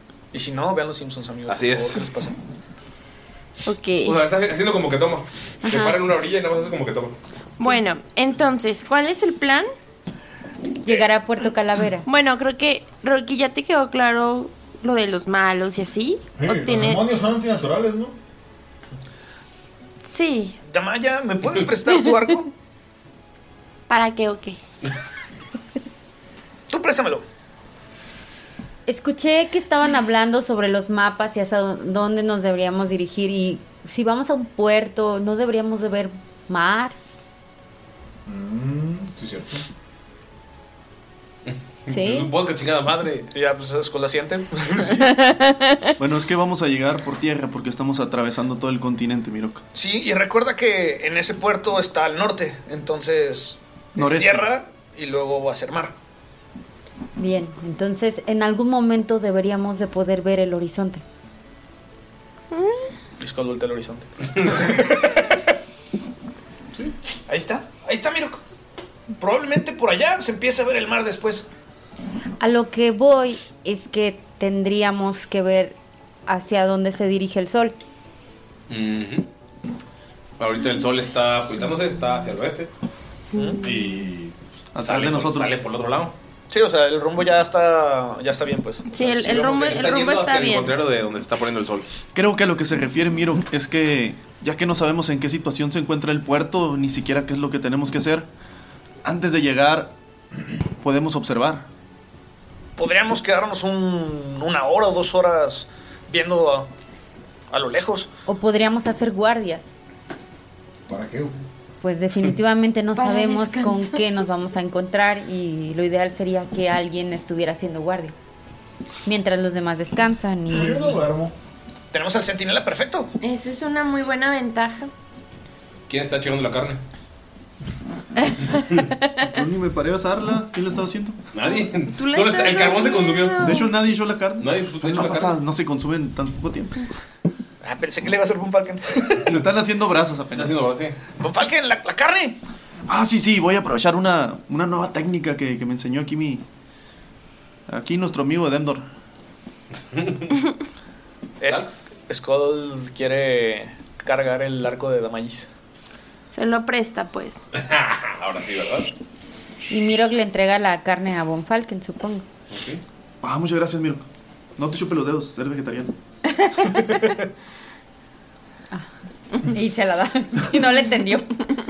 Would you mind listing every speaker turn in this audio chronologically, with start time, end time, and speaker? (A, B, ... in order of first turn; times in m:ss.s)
0:00.3-0:02.4 A
0:01.5-0:02.0 B
0:03.6-0:04.2 C
0:04.0-0:07.2 B
0:05.6-0:05.9 D
0:07.6-0:09.7 C
0:10.8-0:12.1 D
0:12.0-0:17.0 C
0:16.4-0:18.2 E
0:20.0-0:20.6 C
0:20.7-0:22.5 A
0:23.9-0:24.6 C
0:26.7-0:27.2 A
0:28.9-0:36.9 D
0:38.2-0:39.6 E
0:41.4-0:43.3 B
0:41.9-0:42.3 D
0:43.3-0:45.1 A
0:45.3-0:45.9 C
0:46.0-0:49.6 F
0:49.7-0:55.9 A
0:54.0-0:54.5 F
0:57.2-1:01.0 D
1:02.5-1:02.9 C
1:03.2-1:05.3 A
1:07.3-1:08.4 A
1:09.2-1:11.5 A
1:12.4-1:15.7 D
1:16.3-1:17.8 D
1:18.7-1:19.3 B
1:20.4-1:22.7 B
1:23.4-1:23.8 C
1:23.6-1:26.1 B
1:24.7-1:25.6 F
1:26.5-1:29.9 A
1:28.9-1:30.8 C
1:29.6-1:31.9 B
1:32.1-1:38.3 F
1:39.0-1:39.9 F
1:40.8-1:41.6 F
1:42.8-1:46.7 A
1:47.5-1:48.1 A
1:48.3-1:49.7 D
1:50.9-1:51.4 E
1:51.8-1:58.1 D
1:53.0-1:54.0 C
1:59.0-2:01.0 D
2:00.5-2:01.3 E
2:01.9-2:03.1 A
2:03.2-2:04.9 C
2:05.9-2:06.8 B
2:09.2-2:11.3 F
2:11.3-2:13.6 B
2:11.4-2:13.8 C
2:13.4-2:16.8 F
2:14.4-2:15.4 B
2:17.6-2:19.4 A
2:19.3-2:20.6 F
2:20.3-2:21.0 B
2:21.2-2:22.4 A
2:22.9-2:26.4 F
2:27.7-2:28.8 F
2:29.9-2:30.3 B
2:31.4-2:35.5 A
2:31.5-2:31.8 B
2:36.3-2:37.5 C
2:37.5-2:38.9 B
2:39.7-2:42.2 D
2:42.5-2:42.8 B
2:43.2-2:44.0 F
2:44.6-2:45.9 F
2:46.4-2:46.8 C
2:49.4-2:51.3 D